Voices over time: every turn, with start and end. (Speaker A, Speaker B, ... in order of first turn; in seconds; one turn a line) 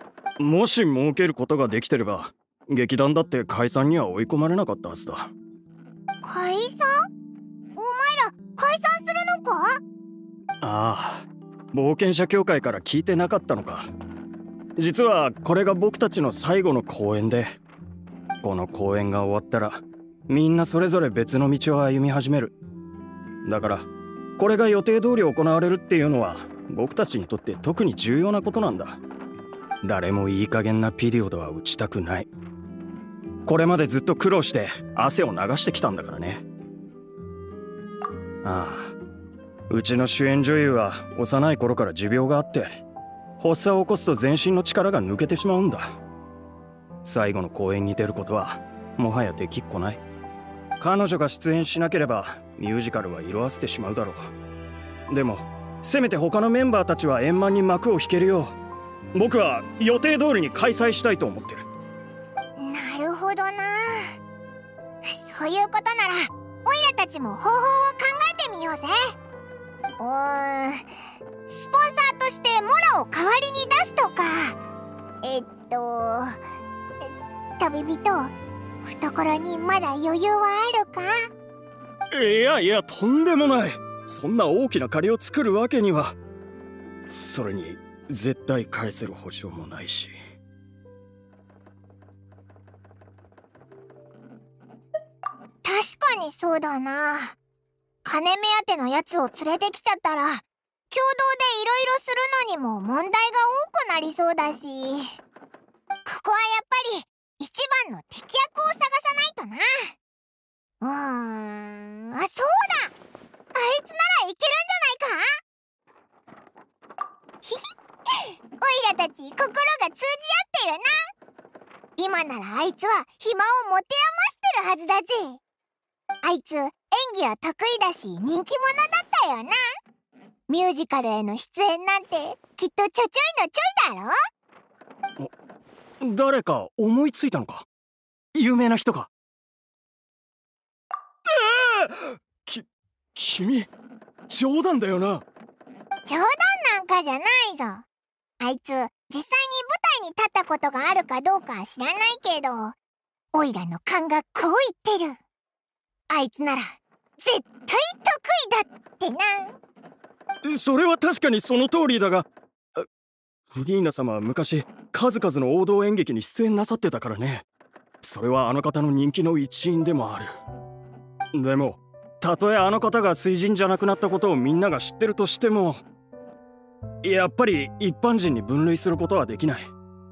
Speaker A: 0.4-5.3
Speaker B: 6.2-6.9
Speaker B: 7.8-9.8
Speaker A: 10.6-13.9
Speaker A: 14.8-17.6
Speaker A: 18.4-22.5
Speaker A: 23.4-23.9
Speaker A: 24.4-29.0
Speaker A: 29.8-32.3
Speaker A: 33.5-36.4
Speaker A: 38.4-38.9
Speaker A: 39.7-42.7
Speaker A: 43.4-46.0
Speaker A: 47.0-50.0
Speaker A: 50.8-54.3
Speaker A: 55.1-58.5
Speaker A: 59.1-61.7
Speaker B: 62.6-64.1
Speaker B: 65.0-69.1
Speaker B: 70.0-70.9
Speaker B: 71.5-74.6
Speaker B: 75.2-76.4
Speaker B: 77.0-78.3
Speaker B: 78.8-81.1
Speaker A: 82.1-86.2
Speaker A: 87.1-90.1
Speaker B: 95.6-97.4
Speaker B: 98.0-105.2
Speaker B: 106.0-110.0
Speaker B: 110.8-112.9
Speaker B: 113.5-115.4
Speaker B: 117.4-121.0
Speaker B: 122.0-125.4
Speaker B: 126.2-129.6
Speaker B: 130.5-134.2
Speaker A: 136.0-137.7
Speaker A: 138.3-139.1
Speaker A: 141.3-143.7
Speaker A: 144.3-145.2
Speaker B: 146.1-147.8
Speaker B: 148.4-152.8
Speaker B: 153.3-155.2
Speaker B: 156.1-159.6
Speaker A: 160.4-162.3
Speaker A: 163.5-167.4
Speaker A: 168.0-170.3
Speaker A: 171.3-175.8
Speaker A: 177.0-179.7